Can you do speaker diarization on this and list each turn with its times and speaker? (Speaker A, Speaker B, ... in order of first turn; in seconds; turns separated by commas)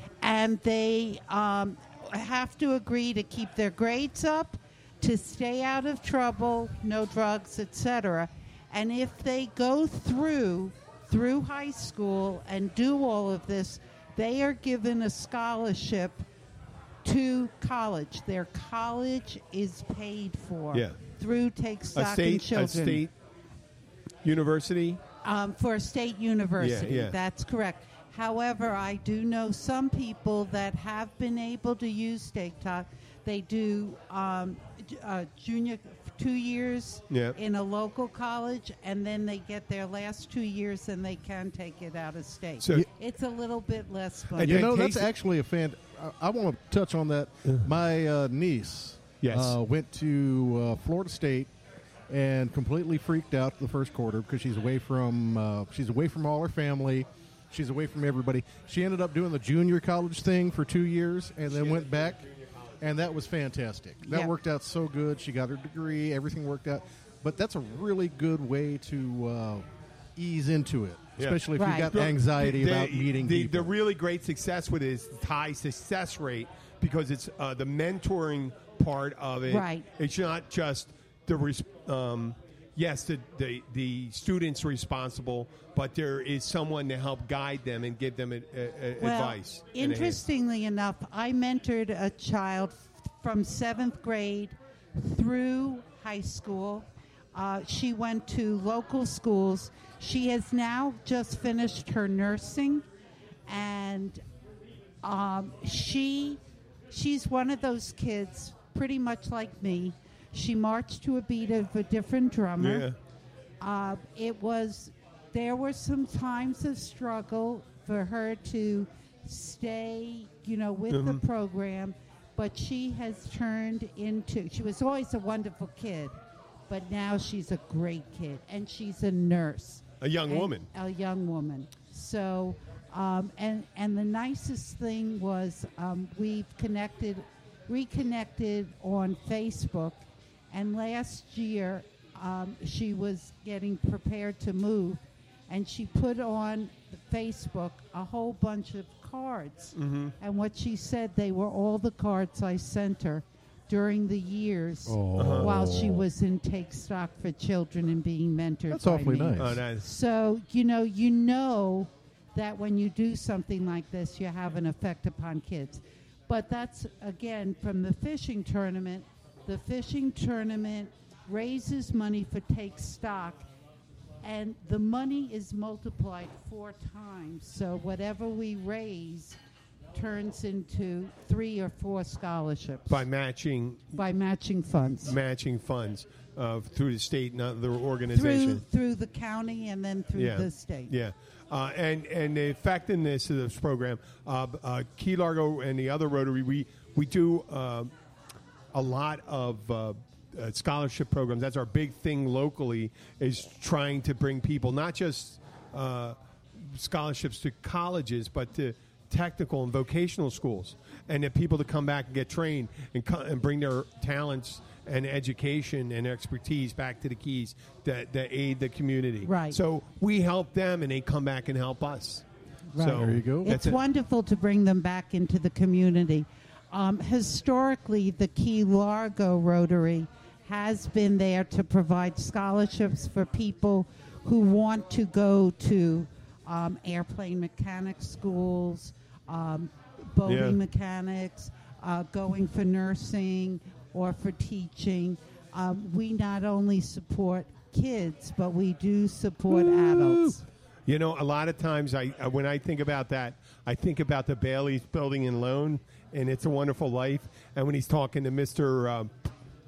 Speaker A: 0.2-16.2, Speaker A: 17.1-23.0, Speaker B: 22.0-23.1, Speaker B: 24.2-25.0, Speaker A: 25.2-44.7, Speaker B: 26.6-27.1, Speaker B: 37.1-37.4, Speaker B: 42.6-42.9, Speaker C: 44.4-51.5, Speaker B: 44.4-45.1, Speaker B: 49.2-49.5, Speaker C: 52.1-62.2, Speaker B: 61.5-62.9, Speaker C: 62.8-73.7, Speaker A: 64.0-64.3, Speaker B: 71.2-90.2, Speaker A: 71.6-71.9, Speaker A: 79.5-79.8, Speaker A: 89.0-102.8, Speaker A: 103.5-104.2, Speaker A: 105.0-112.9, Speaker B: 112.6-113.0, Speaker A: 113.6-126.2, Speaker B: 120.9-121.2, Speaker A: 126.7-173.5, Speaker B: 130.0-130.7, Speaker B: 149.8-150.1, Speaker C: 154.9-156.1, Speaker B: 155.2-155.5, Speaker C: 158.7-159.6, Speaker B: 159.4-159.8, Speaker A: 174.2-179.4, Speaker A: 179.9-183.0, Speaker B: 182.9-183.9, Speaker A: 183.9-185.2, Speaker B: 185.0-188.6, Speaker A: 188.1-190.9, Speaker B: 190.2-197.9, Speaker B: 198.7-222.2, Speaker A: 219.2-219.6, Speaker A: 222.7-250.4, Speaker B: 222.8-223.8, Speaker C: 222.9-223.5, Speaker B: 240.3-240.6, Speaker C: 249.5-250.3, Speaker B: 250.9-259.3